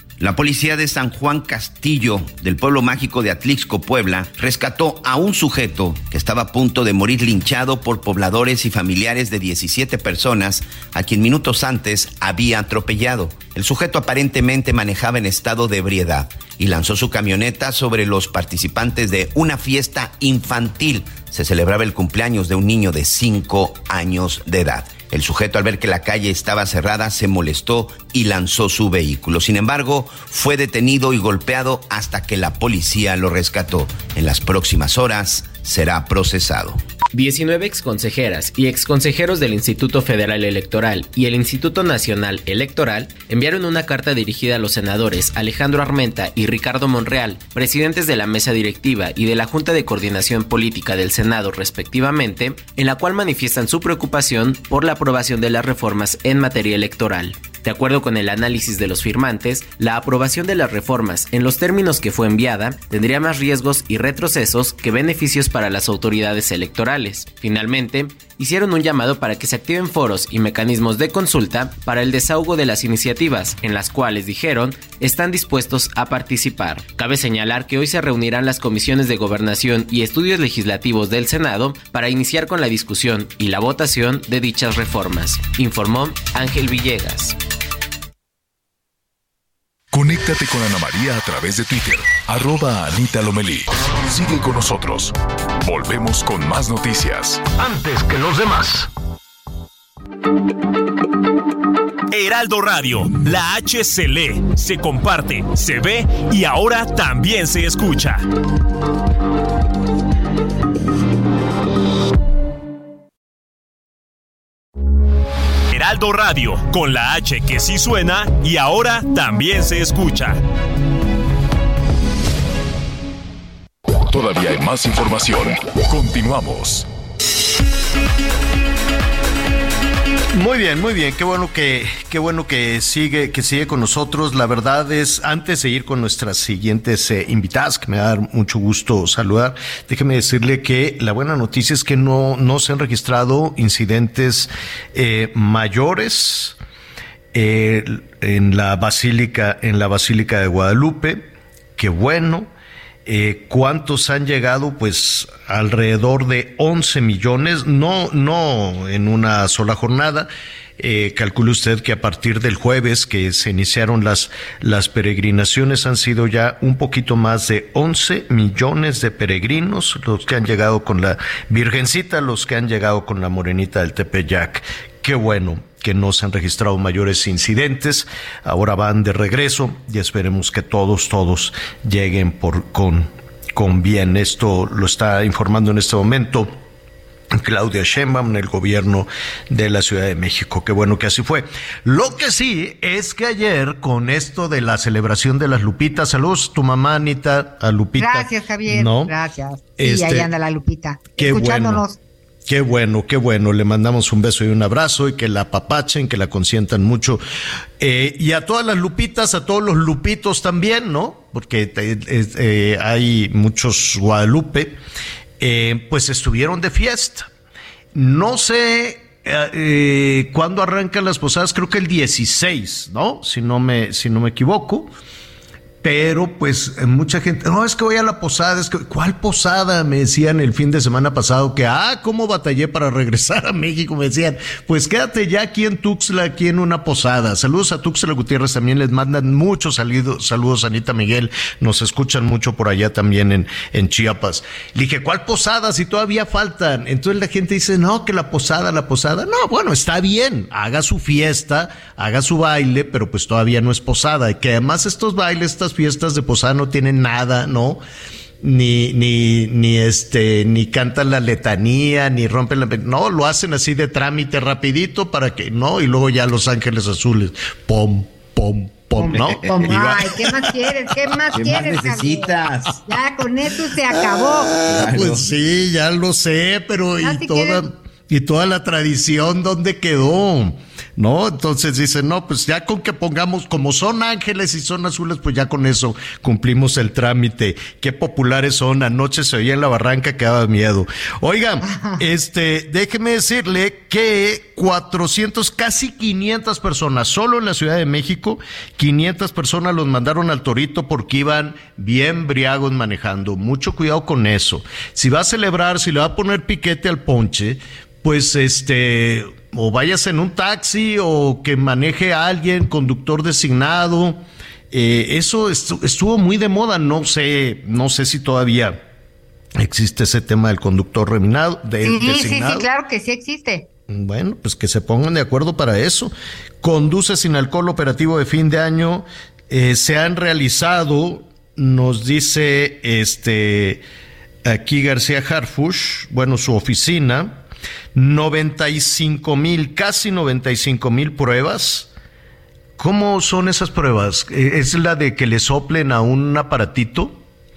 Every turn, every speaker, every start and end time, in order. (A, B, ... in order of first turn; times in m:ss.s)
0:00.2-0:36.8 A
0:37.1-1:27.4 B
1:29.9-1:37.5 C
1:37.6-1:38.9 D
1:42.1-1:48.3 E
1:55.7-2:00.4 E
2:03.9-2:06.9 C
2:10.3-2:26.6 D
2:27.3-2:32.5 D
2:33.0-3:06.5 D
3:07.3-3:19.2 D
3:18.0-3:22.0 F
3:19.8-3:20.3 D
3:21.2-3:21.8 D
3:22.4-3:27.2 D
3:27.8-3:34.8 D
3:35.4-3:37.3 D
3:37.9-3:44.9 D
3:45.8-4:17.8 D
4:18.4-4:31.2 D
4:29.0-4:32.3 F
4:29.1-4:30.0 A
4:31.3-4:32.8 A
4:32.8-4:34.6 F
4:34.2-5:18.8 D
4:34.6-4:35.3 A
4:37.0-4:37.6 F
4:51.6-4:52.0 F
5:19.6-5:22.7 D
5:21.8-5:23.7 F
5:23.9-5:33.8 D
5:34.4-5:37.4 D
5:37.9-5:41.9 D
5:42.8-5:47.2 D